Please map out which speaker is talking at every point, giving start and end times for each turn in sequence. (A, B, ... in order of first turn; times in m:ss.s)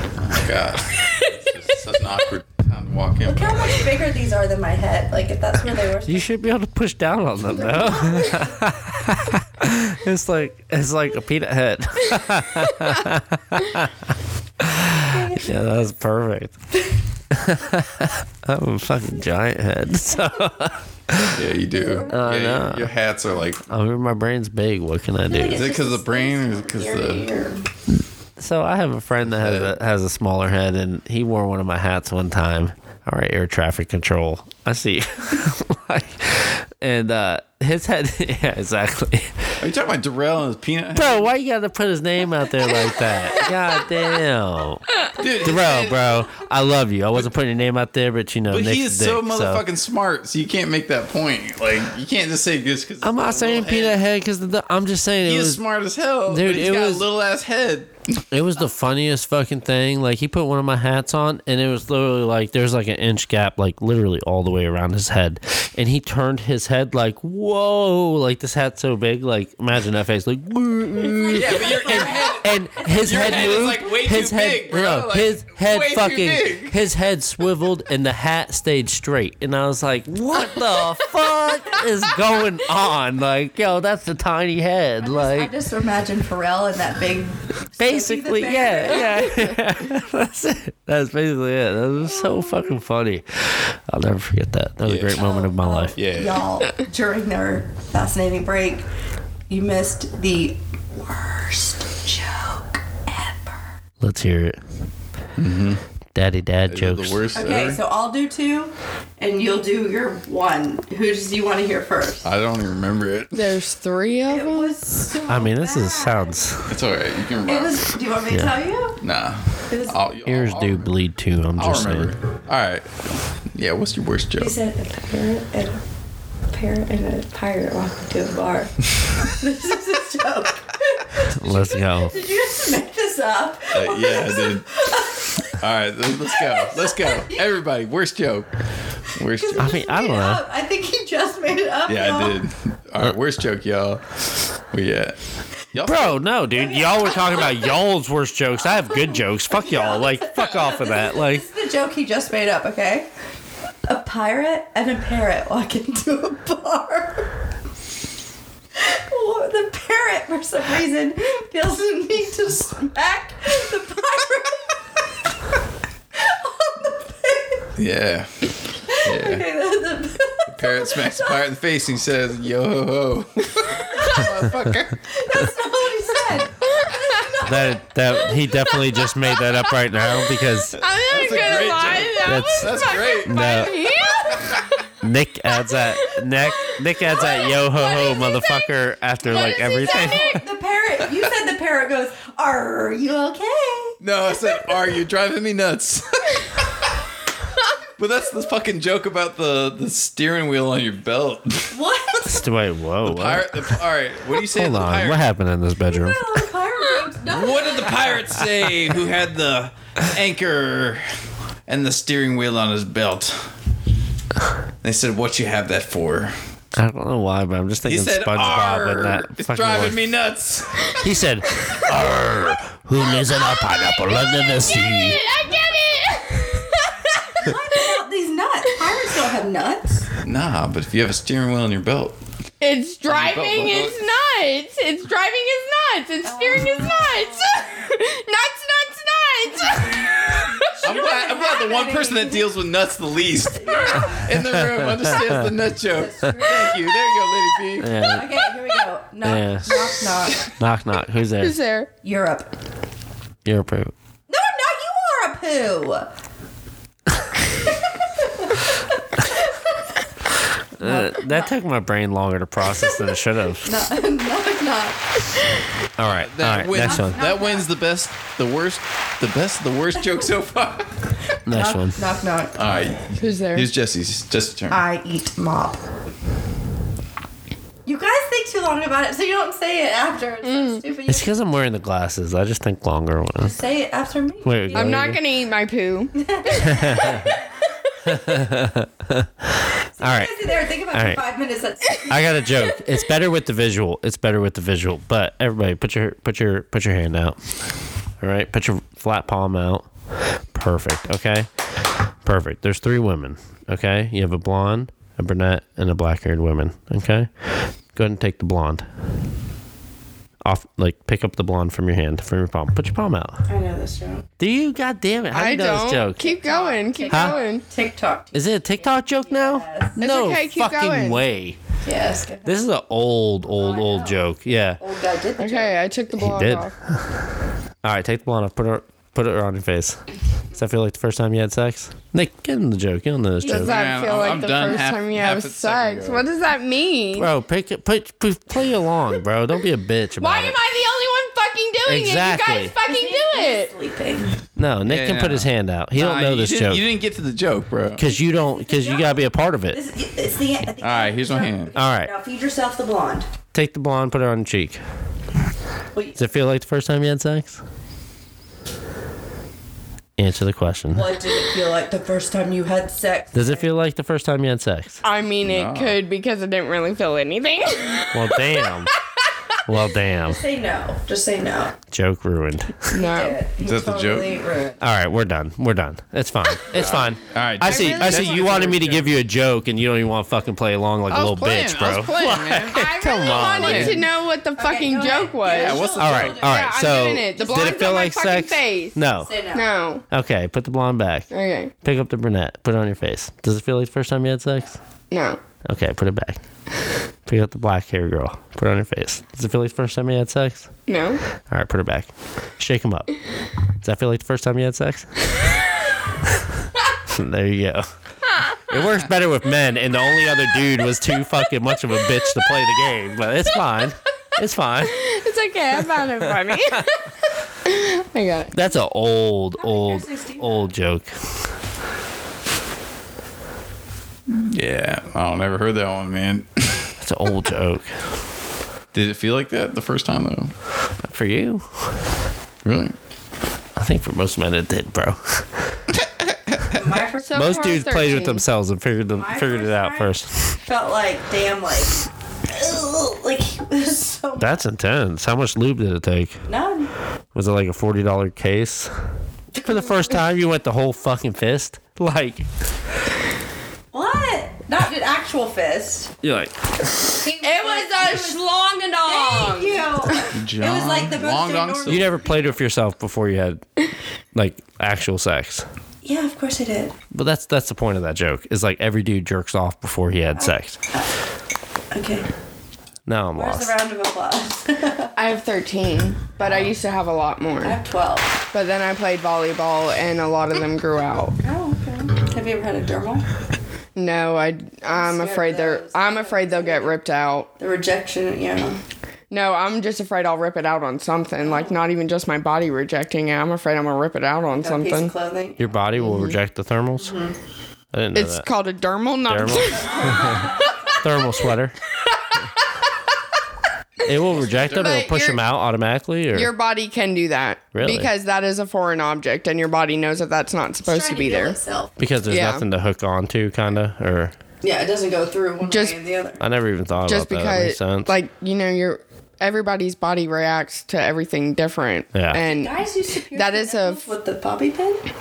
0:00.2-0:03.8 A
0:03.2-0:06.3 B
0:06.1-0:13.9 C
0:07.6-0:08.5 B
0:14.6-0:16.5 C
0:15.0-0:15.5 B
0:17.3-0:21.4 C
0:21.3-0:23.7 A
0:21.7-0:22.1 B
0:22.1-0:22.9 C
0:23.7-0:25.6 C
0:25.3-0:27.6 B
0:25.5-0:27.3 A
0:28.4-0:39.5 C
0:29.2-0:29.8 A
0:39.6-0:41.3 A
0:40.9-0:44.8 C
0:45.2-0:46.1 A
0:45.4-0:49.6 C
0:48.5-0:54.0 A
0:53.0-0:55.6 C
0:55.2-0:58.2 A
0:56.3-0:57.0 C
0:58.3-1:25.5 C
1:11.0-1:13.7 B
1:11.3-1:16.8 A
1:25.0-1:29.5 B
1:27.8-1:35.9 C
1:34.8-1:35.3 A
1:35.1-1:38.8 B
1:36.0-1:36.4 A
1:39.5-1:43.7 B
1:44.0-1:44.6 C
1:45.4-1:45.8 A
1:46.1-1:47.2 C
1:46.7-1:47.8 A
1:47.3-1:52.2 B
1:52.2-1:53.4 A
1:53.3-1:54.8 D
1:54.3-1:56.4 B
1:55.3-1:56.7 C
1:56.7-1:57.9 A
1:57.4-1:59.0 B
1:58.3-1:58.6 C
1:59.0-2:00.9 A
1:59.7-2:00.0 B
2:00.2-2:02.1 C
2:01.6-2:04.6 A
2:04.4-2:05.8 B
2:06.5-2:15.5 B
2:11.2-2:12.1 C
2:13.7-2:14.7 A
2:15.5-2:18.5 A
2:16.4-2:17.4 B
2:19.1-2:19.8 A
2:19.3-2:22.4 B
2:19.6-2:20.4 C
2:21.9-2:25.2 A
2:25.7-2:26.2 A
2:25.8-2:31.4 C
2:26.5-2:27.8 B
2:28.8-2:33.1 B
2:33.8-2:37.3 B
2:38.8-2:44.8 B
2:46.1-2:47.6 B
2:47.8-2:49.4 A
2:48.9-2:51.4 B
2:50.5-2:55.0 A
2:55.1-2:57.8 B
2:56.8-2:57.3 D
2:57.4-3:00.8 C
2:58.7-2:59.6 D
3:00.3-3:04.6 D
3:01.0-3:03.5 A
3:02.2-3:03.7 C
3:05.0-3:10.4 C
3:05.6-3:08.6 D
3:07.8-3:08.2 B
3:09.2-3:10.4 D
3:09.8-3:14.0 B
3:14.0-3:16.5 A
3:18.0-3:21.8 A
3:21.7-3:22.5 B
3:22.3-3:23.6 C
3:23.0-3:25.2 A
3:24.5-3:26.4 C
3:25.8-3:28.1 B
3:27.3-3:31.1 A
3:31.7-3:33.5 A
3:34.8-3:36.4 A
3:36.8-3:40.0 C
3:37.8-3:40.9 A
3:40.9-3:45.2 C
3:41.9-3:42.2 A
3:43.6-3:44.0 D
3:44.6-3:47.5 D
3:47.4-3:50.1 B
3:50.2-3:52.2 A
3:52.6-4:00.6 D
3:53.1-3:54.0 A
3:56.2-3:57.6 B
4:00.7-4:02.5 B
4:00.8-4:08.1 A
4:03.5-4:04.3 B
4:04.3-4:05.4 C
4:05.9-4:06.9 B
4:07.8-4:08.5 C
4:08.0-4:10.6 B
4:09.2-4:11.6 C
4:11.4-4:11.9 D
4:12.0-4:12.5 B
4:13.4-4:13.9 C
4:14.3-4:16.1 B
4:18.2-4:18.8 B
4:20.8-4:23.8 C
4:20.8-4:21.5 B
4:22.7-4:25.0 B
4:26.0-4:27.2 C
4:26.0-4:31.2 A
4:26.8-4:27.7 B
4:31.4-4:32.6 B
4:31.5-4:32.0 C
4:32.6-4:34.8 A
4:33.2-4:33.7 D
4:34.7-4:35.8 B
4:37.8-4:41.3 B
4:40.4-4:40.8 D
4:41.1-4:43.6 C
4:43.4-4:45.2 B
4:44.4-4:45.2 C
4:44.7-4:47.3 D
4:46.2-4:47.4 B
4:46.6-4:47.2 C
4:48.0-4:50.4 C
4:50.0-4:52.8 B
4:50.9-4:51.2 C
4:52.1-4:57.4 C
4:58.2-4:59.9 C
5:00.5-5:01.7 C
5:02.2-5:08.8 C
5:10.4-5:13.4 C
5:13.5-5:14.3 B
5:14.4-5:16.2 C
5:15.3-5:17.6 D
5:16.2-5:20.0 B
5:18.3-5:21.6 C
5:20.0-5:21.2 D
5:21.8-5:22.6 B
5:22.4-5:24.8 C
5:23.6-5:25.8 B
5:25.4-5:26.7 D
5:26.1-5:26.7 C
5:27.8-5:30.0 C
5:30.5-5:33.8 C
5:33.4-5:37.3 D
5:33.5-5:36.2 A
5:37.1-5:40.6 C
5:40.2-5:43.7 D
5:41.9-5:42.7 C
5:42.8-5:44.4 B
5:44.6-5:46.8 C
5:44.8-5:48.1 A
5:48.0-5:49.8 C
5:48.2-5:53.3 B
5:50.8-5:51.7 A
5:51.7-5:52.1 C
5:53.5-5:54.8 C
5:55.9-5:56.2 B
5:56.2-5:57.6 C
6:00.2-6:01.2 C
6:00.9-6:03.7 B
6:03.3-6:05.0 C
6:05.0-6:08.6 D
6:05.4-6:06.0 A
6:08.1-6:08.9 C
6:09.6-6:10.4 C
6:10.2-6:11.8 B
6:11.9-6:12.9 C
6:12.9-6:13.4 D
6:12.9-6:14.8 B
6:13.6-6:14.4 A
6:14.8-6:24.0 C
6:16.7-6:19.1 A
6:17.6-6:18.8 B
6:21.1-6:22.9 A
6:22.6-6:29.0 D
6:23.2-6:23.8 B
6:23.5-6:24.0 A
6:24.6-6:26.8 B
6:25.4-6:26.4 A
6:26.0-6:29.3 C
6:27.5-6:27.8 B
6:29.2-6:29.7 B
6:29.5-6:30.0 D
6:30.1-6:31.3 C
6:31.3-6:31.7 D
6:31.8-6:34.8 C
6:35.1-6:35.4 D
6:35.7-6:36.4 C
6:37.3-6:40.7 C
6:40.9-6:41.2 D
6:41.5-6:43.1 C
6:43.8-6:45.1 C
6:47.1-6:47.8 C
6:48.7-6:55.0 C
6:54.9-6:57.0 D
6:56.5-6:56.8 C
6:57.6-6:58.6 D
6:58.5-7:01.1 C
6:59.6-7:00.7 B
7:04.3-7:06.9 A
7:07.0-7:07.9 C
7:08.9-7:10.5 A
7:11.0-7:11.9 C
7:12.6-7:13.0 A
7:13.8-7:15.4 C
7:16.2-7:16.7 A
7:16.7-7:18.2 B
7:17.2-7:18.4 D
7:17.3-7:20.5 C
7:19.2-7:24.6 B
7:24.4-7:26.4 C
7:26.5-7:26.9 B
7:27.3-7:28.9 C
7:29.6-7:29.9 B
7:29.6-7:32.5 C
7:33.9-7:36.1 B
7:36.2-7:37.1 C
7:37.2-7:38.4 B
7:37.4-7:39.9 D
7:39.1-7:42.6 B
7:40.3-7:42.3 A
7:41.8-7:43.6 C
7:44.3-7:45.6 C
7:46.0-7:47.0 B
7:47.1-7:50.8 C
7:50.3-7:51.1 B
7:51.9-7:52.3 B
7:53.1-7:53.7 C
7:53.3-7:55.1 B
7:55.2-7:57.8 D
7:57.6-7:58.4 B
7:58.5-8:01.4 D
8:01.4-8:03.2 B
8:04.0-8:07.5 D
8:04.9-8:07.0 B
8:07.6-8:08.8 B
8:09.3-8:15.1 D
8:11.4-8:11.7 B
8:14.6-8:15.6 B
8:15.6-8:17.2 C
8:16.0-8:16.4 D
8:17.0-8:17.3 B
8:17.9-8:18.4 C
8:18.1-8:20.4 D
8:19.3-8:20.4 C
8:19.7-8:21.0 B
8:20.9-8:21.7 C
8:24.0-8:26.5 C
8:24.1-8:25.0 A
8:24.7-8:25.4 D
8:26.3-8:31.6 D
8:27.7-8:28.1 C
8:30.8-8:32.0 B
8:32.0-8:34.3 C
8:32.3-8:32.6 D
8:34.6-8:36.4 B
8:35.6-8:36.0 D
8:36.4-8:38.1 C
8:37.1-8:42.7 D
8:42.1-8:42.4 C
8:42.4-8:45.0 B
8:43.3-8:44.1 D